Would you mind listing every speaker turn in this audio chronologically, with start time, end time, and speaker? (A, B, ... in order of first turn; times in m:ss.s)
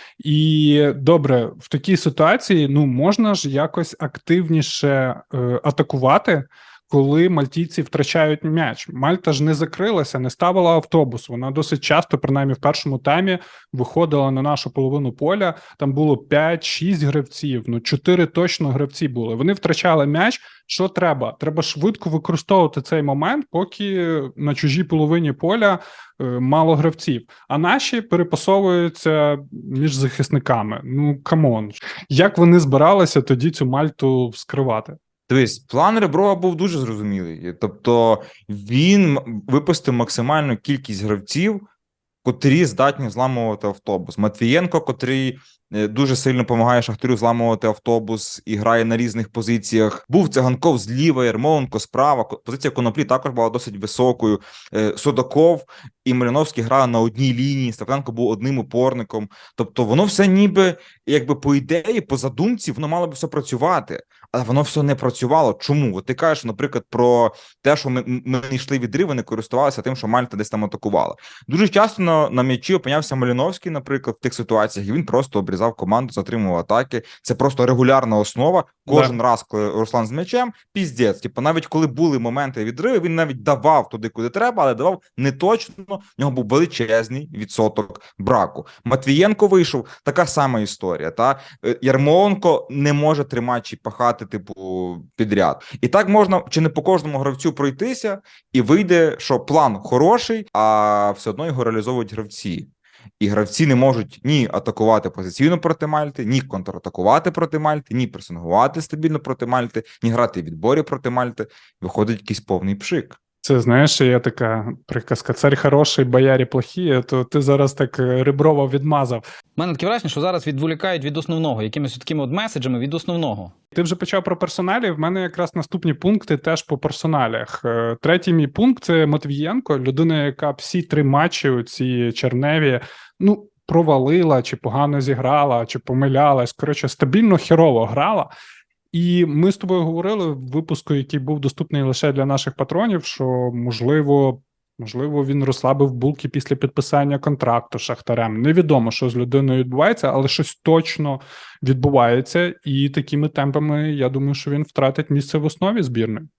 0:00.2-0:35.0 A
0:35.3-0:41.6 B
0:42.2-1:42.7 B
1:18.9-1:19.2 A
1:43.2-1:53.2 B
1:53.4-1:59.2 A
1:59.6-2:03.5 C
2:03.7-2:18.3 A
2:18.9-2:36.3 A